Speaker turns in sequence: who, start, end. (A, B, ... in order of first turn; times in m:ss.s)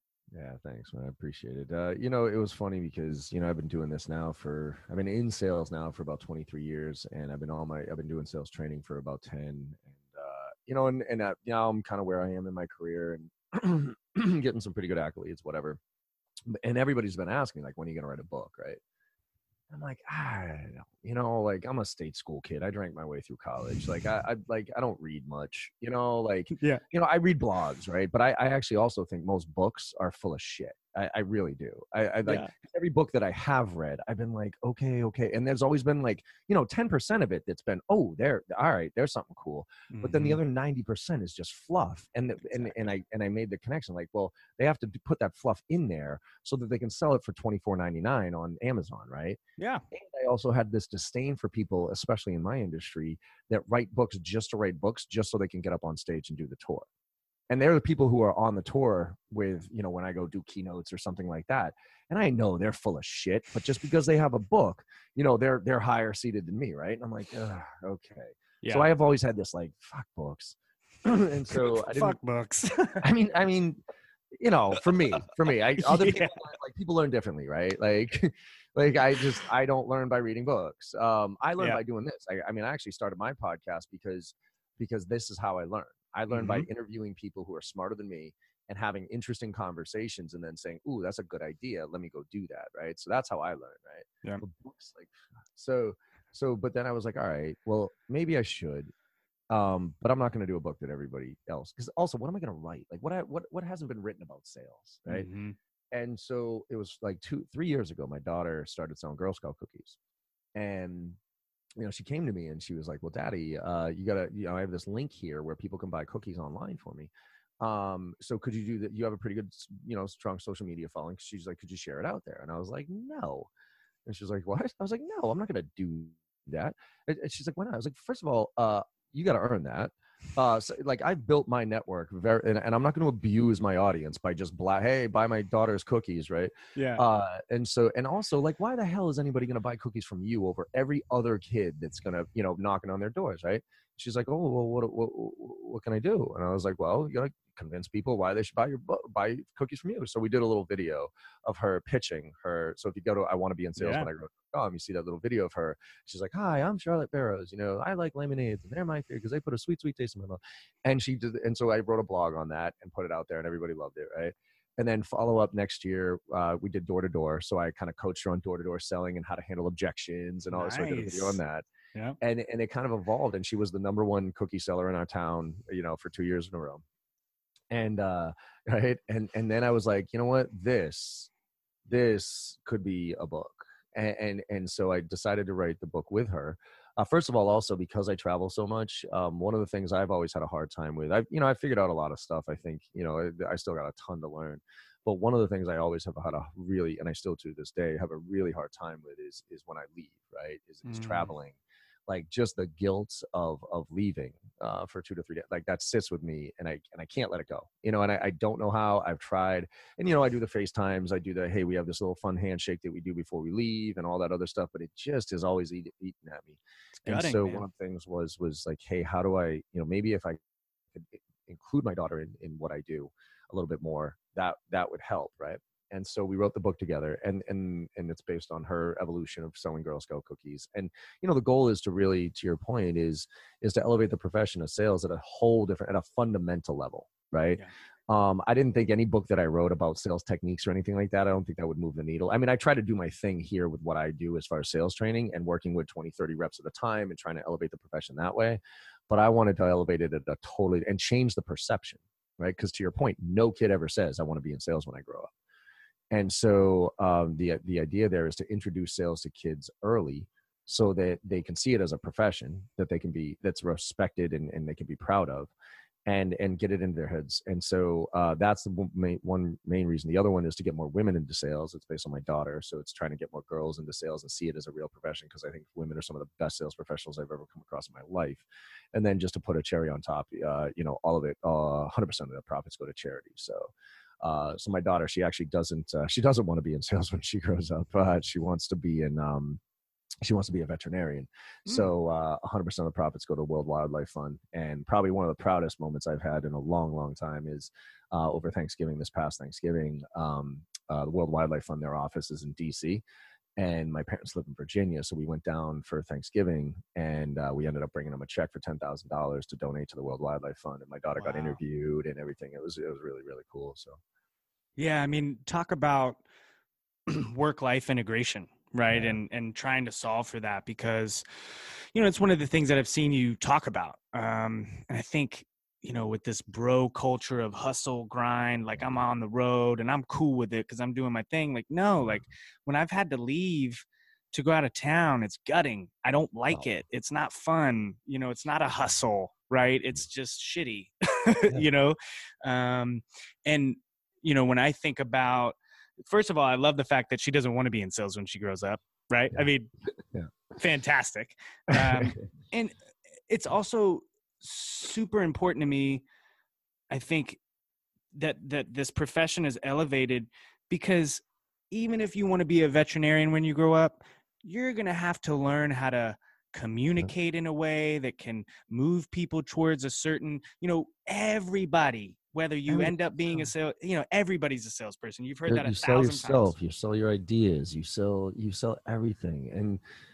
0:00.3-0:15.8 A
0:16.5-0:18.8 A
0:19.7-0:49.4 A
0:26.6-0:26.8 B
0:32.2-0:32.5 B
0:39.9-0:40.4 B
0:42.5-0:42.8 B
0:49.6-0:49.8 B
0:49.9-0:56.9 A
0:57.5-1:12.2 A
1:08.6-1:08.9 B
1:11.5-1:13.0 B
1:13.0-1:13.8 A
1:14.4-1:38.9 A
1:14.9-1:16.4 B
1:26.3-1:26.7 B
1:39.5-1:45.3 A
1:45.1-1:45.6 B
1:45.9-1:50.0 A
1:50.6-1:51.2 A
1:51.8-2:03.5 A
2:04.1-2:51.7 A
2:16.8-2:17.0 B
2:33.8-2:34.1 B
2:50.5-2:51.4 B
2:52.2-2:56.8 A
2:57.7-3:01.3 A
3:01.9-3:40.4 A
3:20.8-3:21.3 B
3:37.0-3:37.6 B
3:40.9-4:15.3 A
4:16.1-4:25.5 A
4:26.1-4:49.6 A
4:50.2-5:03.0 A
5:03.6-5:14.0 A
5:11.2-5:11.6 B
5:14.8-5:16.2 B
5:17.1-5:49.7 B
5:18.9-5:19.2 A
5:50.6-5:52.8 B
5:51.7-5:52.3 A
5:53.3-5:56.0 B
5:56.9-5:57.4 B
5:58.1-6:16.6 B
6:12.7-6:13.5 A
6:15.5-6:19.8 A